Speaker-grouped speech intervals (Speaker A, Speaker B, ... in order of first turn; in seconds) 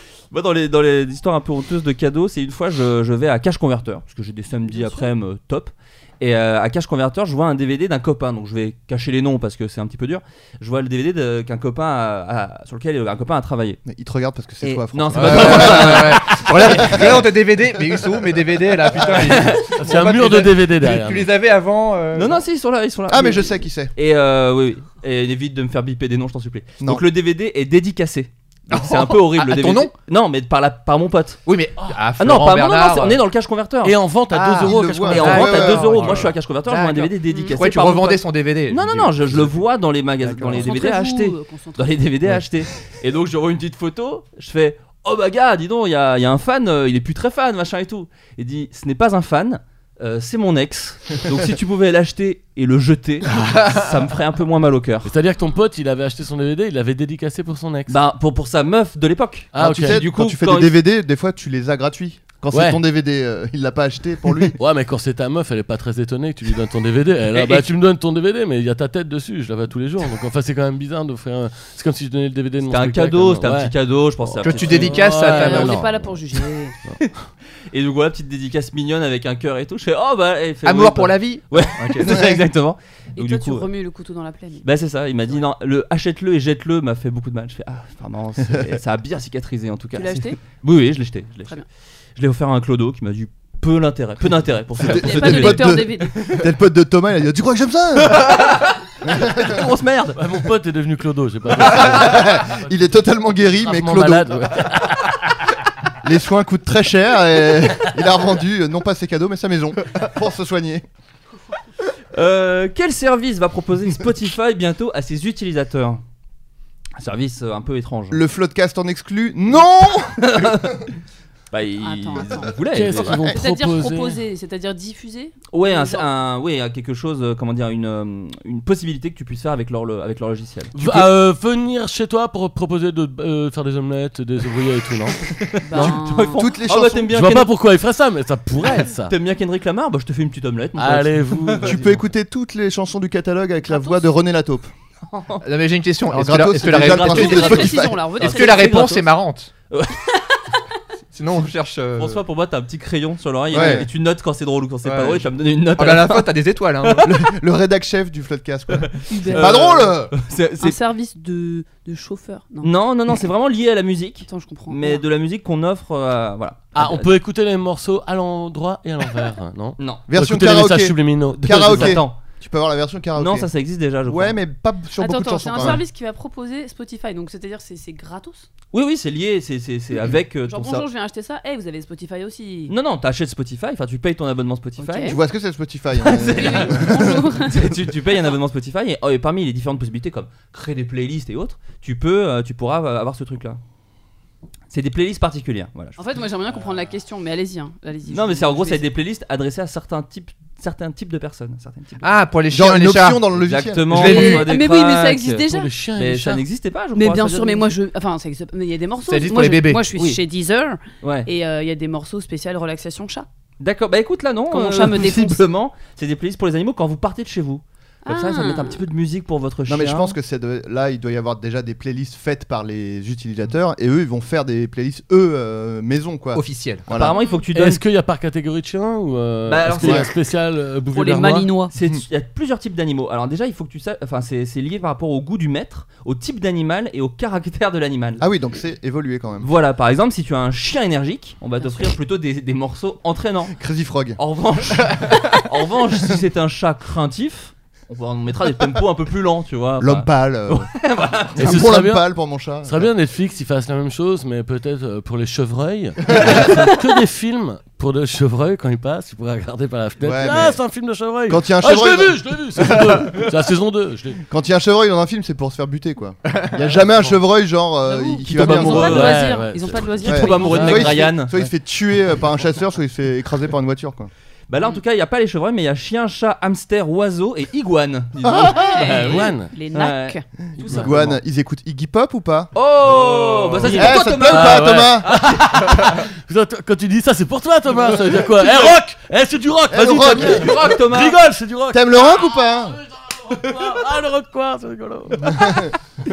Speaker A: 0.3-13.8, 14.6-17.2, 19.0-19.7, 22.1-31.4, 32.2-34.0, 35.0-55.1, 57.9-60.8, 67.3-67.7, 72.7-75.1, 77.7-83.7, 84.6-91.6, 92.2-95.8, 98.1-100.2, 112.1-116.0, 117.0-118.2, 120.1-120.8, 121.5-123.2, 125.5-131.1, 135.7-137.5, 138.8-141.7, 145.1-145.4, 146.7-149.1, 149.7-150.2, 152.0-157.1, 158.7-160.8, 162.6-167.1, 169.8-170.0, 171.4-172.2, 173.2-174.4, 178.7-180.8, 182.7-185.2, 186.0-186.8, 187.4-193.6, 194.7-196.0, 198.1-202.2, 203.4-205.4, 206.0-207.7, 211.0-211.3, 213.6-220.2, 226.9-227.8, 229.5-230.1, 231.7-238.2, 239.4-243.5, 244.2-251.7, 268.3-269.3, 270.1-271.3, 274.5-281.1, 282.5-285.9, 290.0-291.2, 293.5-293.8
Speaker B: 4.7-5.0, 37.3-37.6, 40.6-42.0, 75.2-76.7, 83.2-84.7, 89.9-90.4, 94.9-96.1, 121.8-122.5, 123.1-126.1, 135.6-136.4, 143.7-144.1, 147.0-149.0, 159.1-159.7, 160.6-162.7, 164.2-165.0, 175.0-178.5, 180.5-182.7, 184.8-185.2, 186.2-187.6, 196.0-198.8, 204.0-205.7, 206.9-213.3, 214.5-215.4, 218.0-218.8, 230.9-231.7, 267.8-270.9, 278.6-280.2
Speaker C: 13.8-17.2, 23.1-23.9, 34.6-36.2, 59.6-64.5, 82.1-82.3, 94.8-98.4, 99.0-99.6, 101.6-104.3, 106.0-110.8, 118.1-120.7, 136.1-137.1, 141.6-144.7, 146.1-148.0, 153.5-153.8, 157.0-160.1, 170.1-173.5, 174.0-175.8, 185.1-187.2, 202.5-204.3, 219.7-227.2, 229.8-230.1, 238.2-239.5, 243.5-244.2, 249.8-250.7, 251.4-252.9, 256.1-256.6, 260.0-260.6, 261.3-263.2, 264.3-269.1, 270.1-274.1, 278.2-278.6, 280.6-282.5, 283.7-285.1, 289.7-290.7, 291.7-292.8, 295.2-295.7
Speaker D: 15.1-22.4, 28.7-29.9, 31.4-33.2, 34.3-39.6, 40.2-40.7, 74.4-75.8, 80.6-82.2, 145.4-147.6, 148.2-149.5, 151.1-152.2, 153.5-153.9, 154.8-157.0, 202.0-203.2, 203.9-204.4, 209.0-209.8, 226.3-226.8
Speaker E: 19.7-21.3, 33.8-36.3, 55.0-58.0, 59.5-60.1, 62.5-62.8, 64.5-76.1, 100.1-102.6, 103.5-105.3, 122.6-124.2, 130.7-136.0, 137.1-139.1, 140.8-141.9, 166.7-172.0, 205.5-206.4, 227.5-231.5, 251.4-252.1, 252.6-264.2, 268.5-271.5, 278.5-279.5, 280.6-281.1, 282.8-292.1, 292.7-295.7